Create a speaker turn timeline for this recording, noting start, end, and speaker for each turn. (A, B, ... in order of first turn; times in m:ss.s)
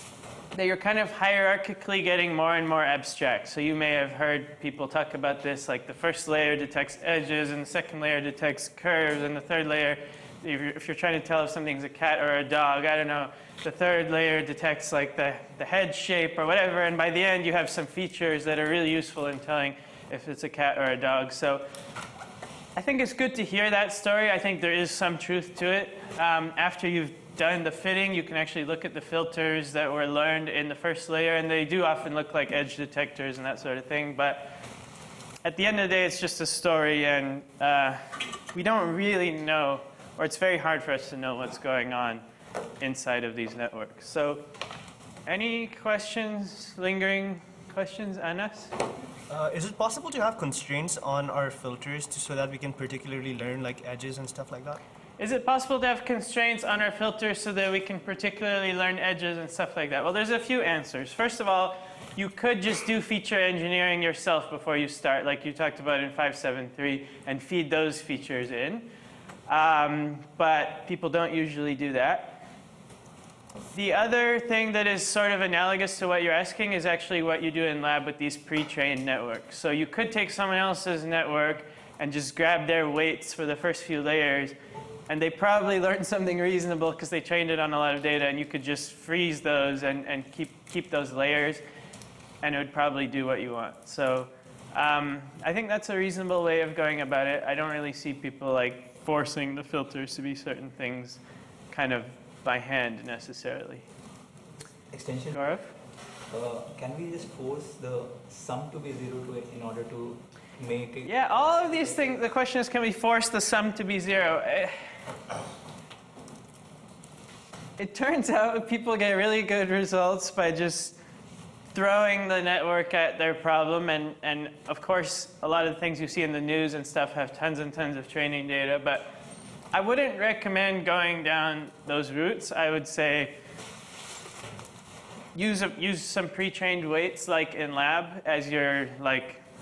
0:00.5-0:21.6 A
0:22.8-0:34.6 A
0:35.4-0:38.0 A
0:38.5-0:42.2 A
0:42.8-0:44.4 A
0:45.2-0:48.7 A
0:49.3-0:54.8 B
0:55.2-1:08.9 A
1:09.5-1:12.4 A
1:13.7-1:24.5 A
1:25.1-1:31.6 A
1:32.4-1:43.8 A
1:44.9-1:45.5 C
1:45.3-1:45.7 A
1:46.3-1:52.1 C
1:51.0-1:54.8 A
1:57.8-2:01.0 A
2:01.7-2:09.1 A
2:09.7-2:13.3 A
2:15.3-2:19.4 A